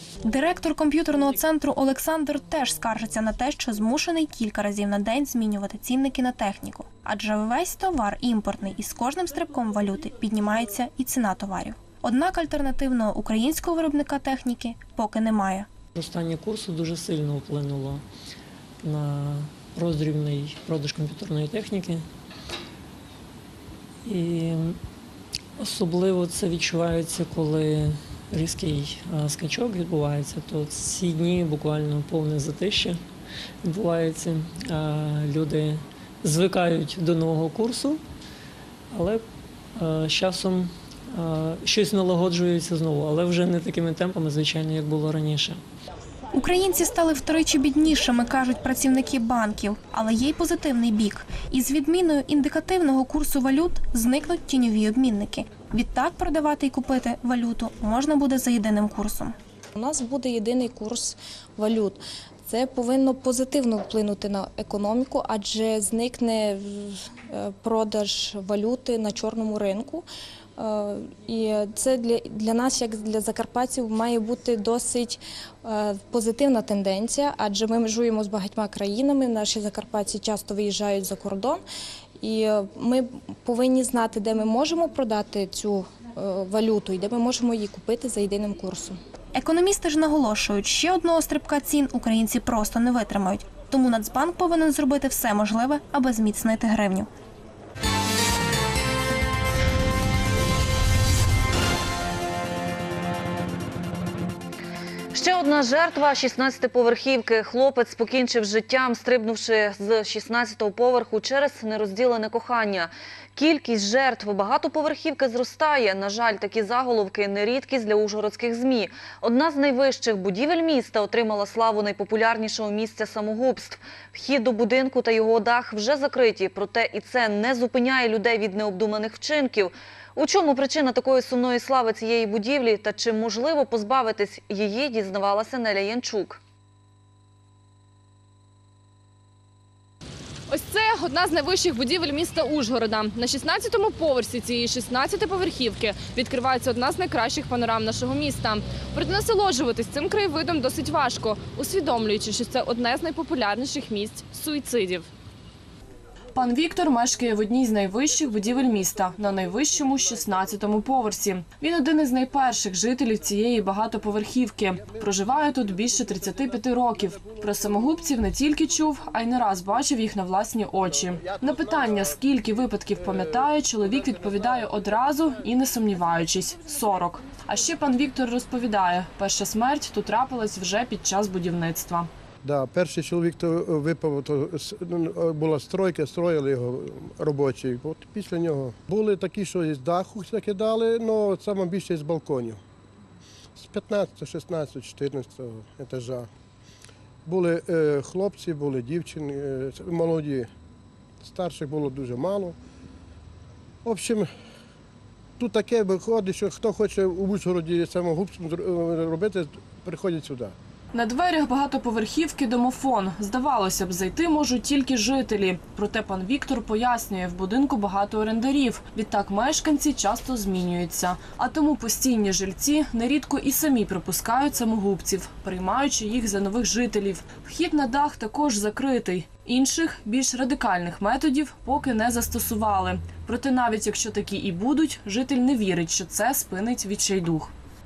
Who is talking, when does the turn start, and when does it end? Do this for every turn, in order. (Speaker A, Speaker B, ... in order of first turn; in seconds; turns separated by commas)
Speaker A: 0.2-15.7, Speaker B: 15.9-18.0, Speaker B: 18.8-22.0, Speaker B: 24.1-24.8, Speaker B: 25.6-33.0, Speaker B: 33.6-38.0, Speaker B: 38.9-39.2, Speaker B: 39.8-45.6, Speaker A: 46.3-59.3, Speaker C: 59.8-70.0, Speaker C: 70.6-81.6, Speaker C: 82.2-89.0, Speaker A: 89.3-97.1, Speaker D: 105.1-136.4, Speaker E: 140.5-155.1, Speaker F: 156.3-182.1, Speaker G: 166.0-167.5, Speaker G: 171.3-172.1, Speaker G: 174.3-174.8, Speaker G: 182.4-192.6, Speaker G: 193.6-196.3, Speaker G: 197.2-200.5, Speaker G: 201.2-202.5, Speaker G: 203.8-204.3, Speaker G: 205.4-210.5, Speaker F: 210.9-237.5